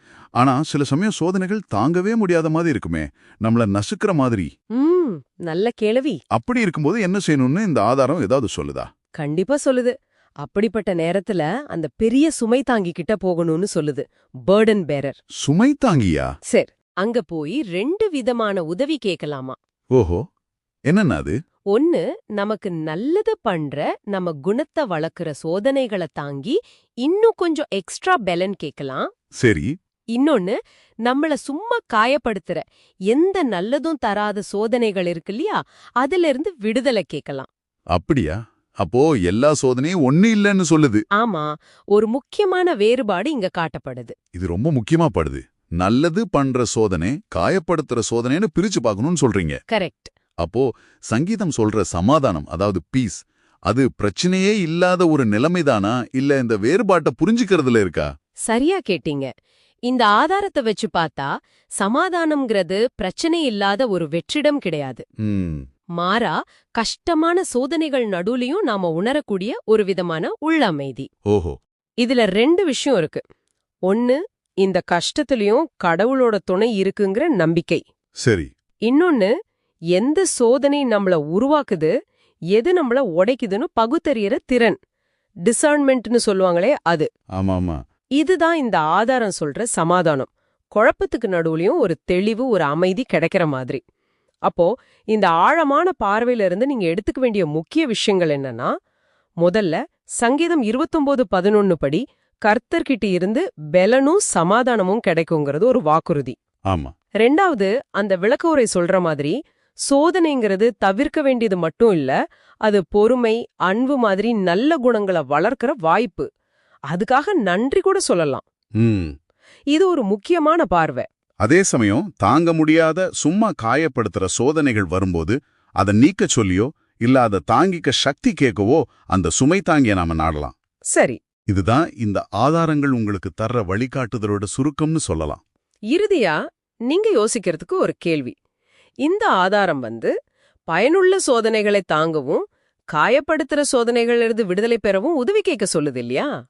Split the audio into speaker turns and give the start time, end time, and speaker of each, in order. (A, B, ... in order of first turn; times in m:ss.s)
0:00.4-0:04.5 A
0:04.8-0:06.2 B
0:06.3-0:08.9 A
0:09.2-0:15.2 B
0:15.4-0:16.3 A
0:16.5-0:19.6 B
0:19.9-0:20.2 A
0:20.9-0:21.4 A
0:21.7-0:29.1 B
0:29.4-0:29.7 A
0:30.1-0:37.5 B
0:37.9-0:41.0 A
0:41.2-0:44.1 B
0:44.4-0:49.6 A
0:49.7-0:50.1 B
0:50.4-0:58.1 A
0:58.5-0:59.3 B
0:59.9-1:05.0 B
1:05.2-1:05.6 A
1:06.0-1:11.1 B
1:11.3-1:11.6 A
1:12.0-1:13.2 B
1:13.9-1:17.8 B
1:18.2-1:18.5 A
1:18.9-1:19.3 B
1:19.9-1:21.9 B
1:22.5-1:24.8 B
1:25.5-1:27.1 B
1:27.4-1:27.8 A
1:28.2-1:33.8 B
1:34.5-1:38.7 B
1:39.4-1:46.4 B
1:46.7-1:46.9 A
1:47.2-1:49.4 B
1:49.9-1:56.3 B
1:56.9-1:58.4 B
1:58.8-1:59.1 A
1:59.7-2:01.1 B
2:01.4-2:10.5 A
2:10.9-2:11.2 B
2:11.5-2:15.4 A
2:15.9-2:16.4 B
2:16.9-2:18.4 B
2:19.0-2:20.1 B
2:20.7-2:26.3 B